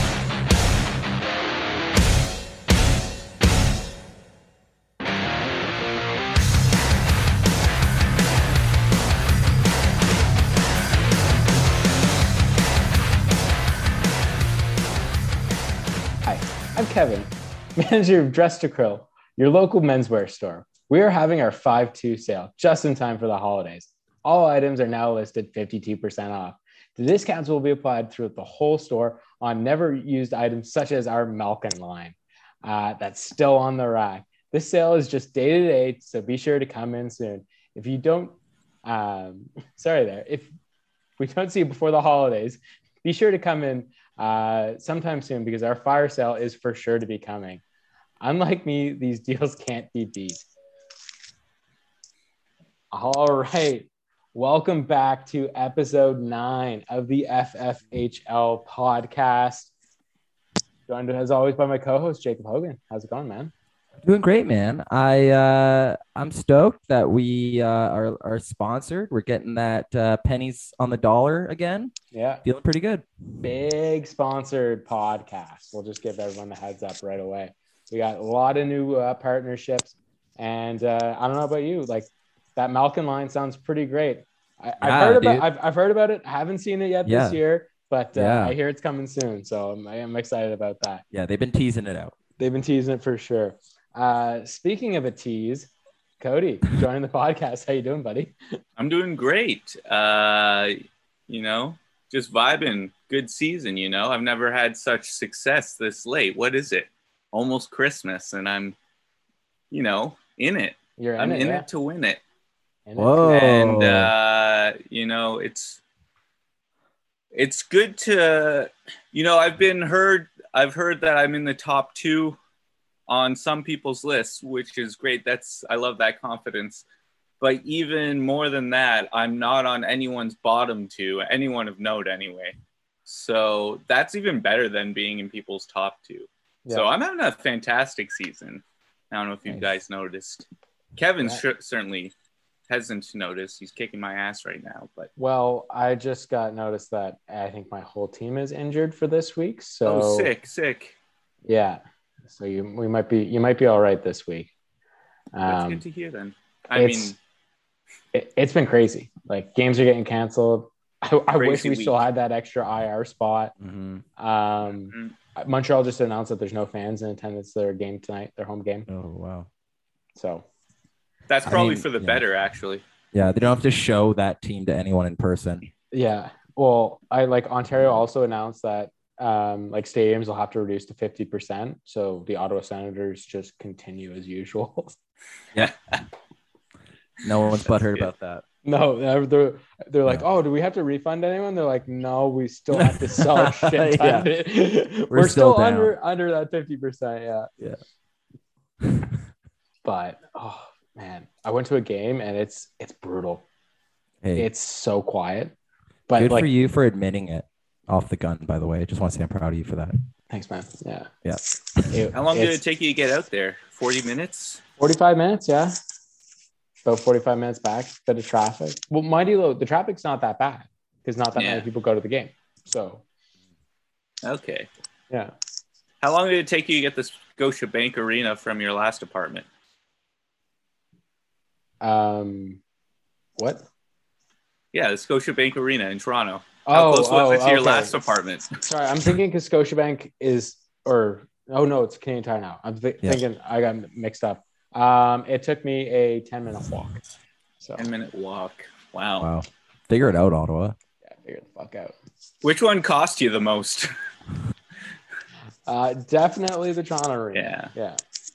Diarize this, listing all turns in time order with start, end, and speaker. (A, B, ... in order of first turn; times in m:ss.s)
0:16.2-0:40.5 A
0:41.2-0:47.6 A
0:48.2-0:50.5 A
0:52.9-0:59.7 A
1:00.9-1:03.5 A
1:04.0-1:13.1 B
1:12.1-1:12.4 A
1:13.4-1:31.0 A
1:24.8-1:25.5 B
1:27.0-1:27.4 B
1:28.2-1:28.6 B
1:31.1-1:32.1 B
1:32.4-1:38.4 A
1:38.8-1:48.8 C
1:49.7-1:52.2 C
1:51.0-1:51.6 A
1:52.9-1:53.5 A
1:53.0-1:54.1 B
1:53.3-1:55.8 C
1:57.3-2:02.4 C
2:03.1-2:06.8 C
2:07.4-2:22.1 C
2:22.7-2:25.1 C
2:25.2-2:30.3 A
2:29.9-2:31.0 C
2:31.5-2:34.5 A
2:35.3-2:35.8 A
2:35.5-2:37.2 C
2:36.8-2:37.2 A
2:38.1-2:43.5 A
2:41.4-2:42.0 C
2:43.6-2:44.0 B
2:44.2-2:48.9 A
2:48.9-2:49.5 B
2:50.2-2:50.5 A
2:51.3-2:52.8 C
2:51.4-2:51.9 A
2:53.1-2:55.6 B
2:55.9-3:05.0 A
3:07.2-3:08.4 B
3:08.6-3:17.5 A
3:12.7-3:14.3 B
3:15.1-3:15.9 B
3:18.8-3:19.1 B
3:19.8-3:23.4 A
3:24.2-3:24.5 B
3:24.4-3:25.5 A
3:26.1-3:26.5 A
3:26.2-3:29.9 B
3:30.3-3:31.1 A
3:31.2-3:32.0 B
3:31.9-3:32.6 A
3:32.1-3:34.6 C
3:34.8-3:35.8 A
3:36.8-3:43.0 A
3:41.4-3:41.6 C
3:44.2-3:44.7 C
3:46.0-3:49.5 C
3:51.8-3:52.6 A
3:53.4-3:53.6 A
3:54.7-3:58.6 C
3:56.7-3:57.9 A
3:58.6-4:07.0 A
4:07.6-4:07.9 A
4:07.8-4:09.3 C
4:09.2-4:10.8 B
4:11.0-4:11.9 A
4:12.4-4:13.9 C
4:15.7-4:18.0 A
4:17.3-4:17.7 C